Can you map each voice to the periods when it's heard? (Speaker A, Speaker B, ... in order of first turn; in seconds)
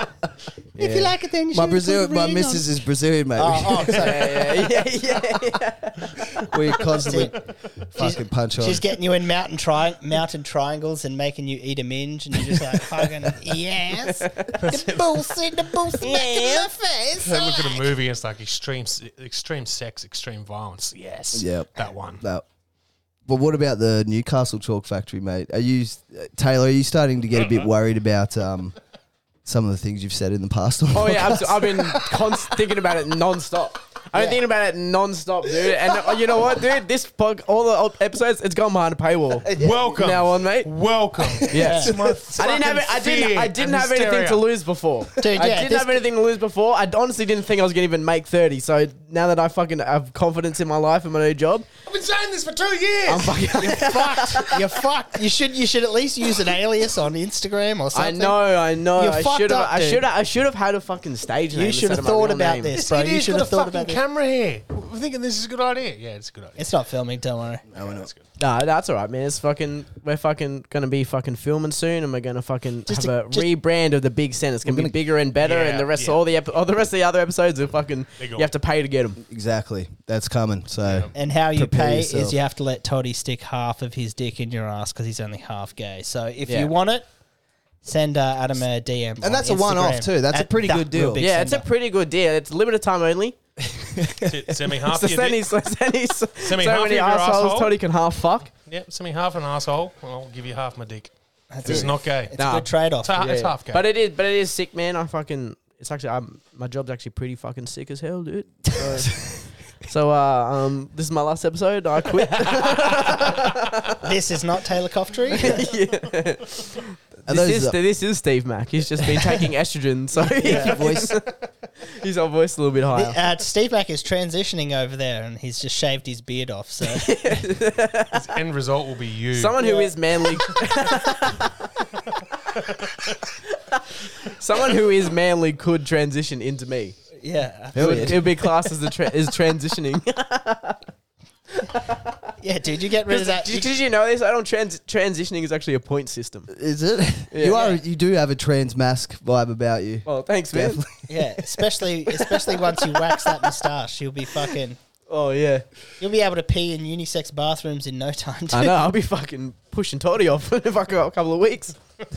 Speaker A: 0.8-2.8, 3.4-4.2, 7.0-7.3, 8.0-17.9, 34.1-34.4, 41.5-41.9, 45.2-46.0, 53.6-60.0, 61.5-64.0, 66.6-67.6, 72.9-73.5, 81.1-87.0, 87.8-91.7, 101.5-103.2, 114.0-115.6, 120.4-120.8, 122.9-127.1, 129.6-129.9, 137.2-138.3, 142.4-143.7, 147.5-147.8, 151.1-154.8, 156.0-158.8
Speaker B: 0.8-1.0, 3.9-6.1, 14.1-14.5, 16.0-16.7, 30.9-40.7, 41.5-51.6, 53.1-54.5, 57.9-62.7, 68.4-79.2, 86.5-86.7, 91.2-93.4, 94.8-98.5, 102.4-109.3, 109.8-114.0, 115.3-121.3, 121.9-123.2, 126.9-128.2, 129.3-131.7, 133.5-137.0, 137.8-140.8, 141.6-142.2, 143.1-146.5, 147.3-147.6, 150.1-150.8, 152.4-153.4, 155.1-155.7, 158.5-161.7
Speaker C: 1.5-4.1, 6.5-8.8, 21.3-22.4, 23.3-28.8, 29.4-32.3, 39.5-39.9, 67.7-68.1, 74.6-75.0, 79.2-82.4, 89.2-91.2, 94.0-94.3, 117.2-117.8, 120.5-121.2, 137.7-138.3, 146.5-151.2
Speaker D: 14.5-15.3, 17.2-22.2, 27.4-27.7, 39.5-44.5, 51.9-53.6, 62.7-66.7, 67.7-68.2, 75.4-76.2, 78.2-78.5, 80.8-81.1, 94.2-95.5, 96.4-97.8, 98.6-101.1, 101.6-102.3, 103.0-103.8, 128.1-129.6, 132.5-133.3